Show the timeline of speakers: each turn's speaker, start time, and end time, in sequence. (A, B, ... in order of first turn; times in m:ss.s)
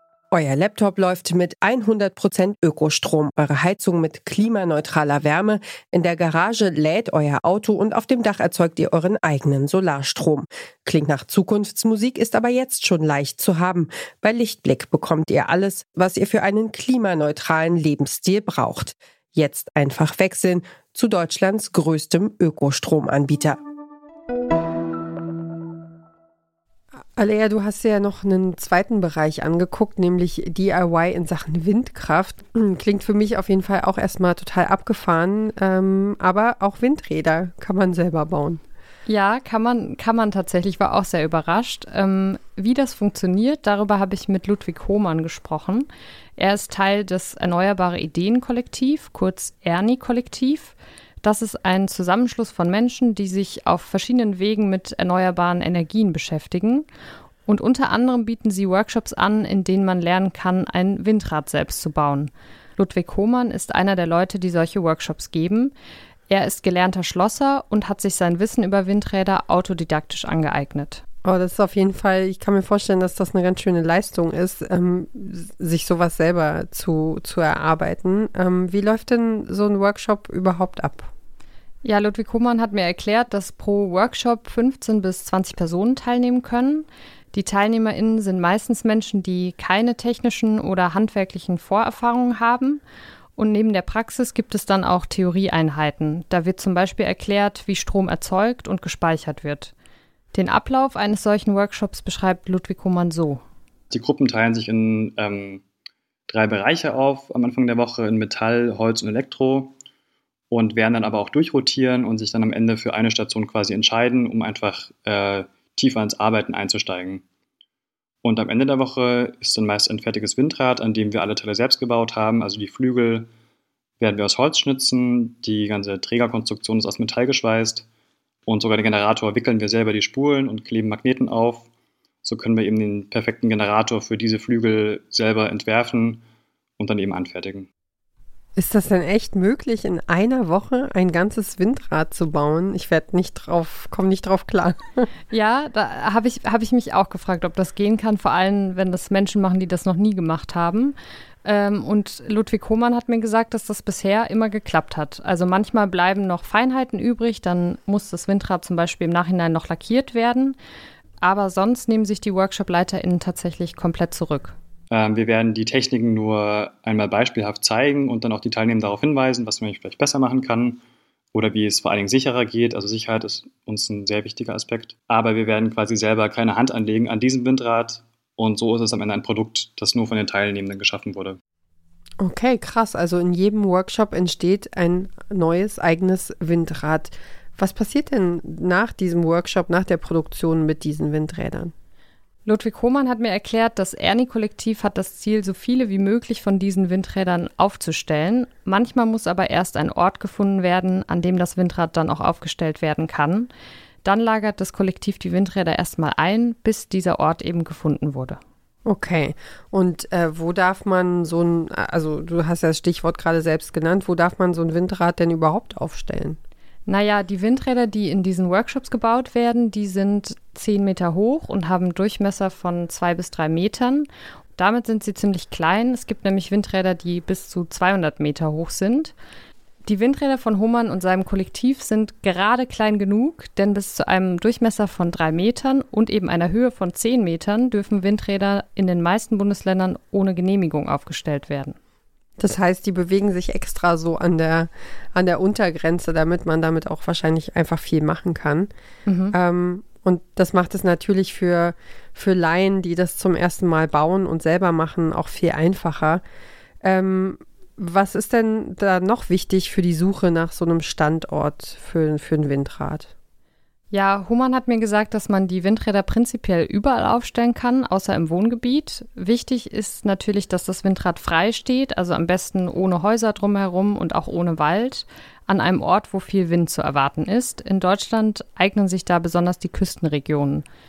0:00.3-0:23.6 A
0:27.2-0:38.6 A
0:39.1-0:56.8 B
0:57.5-1:05.7 B
1:06.3-1:11.0 B
1:11.2-1:21.1 A
1:21.8-1:32.8 B
1:33.4-1:39.7 B
1:40.3-1:43.4 B
1:43.9-1:45.6 C
1:46.3-1:49.8 C
1:50.5-1:57.2 C
1:58.2-2:03.3 C
2:04.0-2:07.9 C
2:08.5-2:11.7 C
2:12.2-2:16.2 C
2:16.8-2:17.7 C
2:18.6-2:25.1 A
2:25.3-2:40.6 B
2:41.2-2:44.6 B
2:44.9-2:50.8 C
2:51.3-3:01.4 C
3:02.2-3:11.7 A
3:12.4-3:23.5 B
3:24.0-3:28.4 B
3:28.8-3:36.4 A
3:36.9-3:49.1 B
3:49.9-4:01.8 B
4:02.4-4:08.7 A
4:09.1-4:09.4 B
4:09.3-4:16.2 A
4:16.8-4:23.1 A
4:23.9-4:40.6 B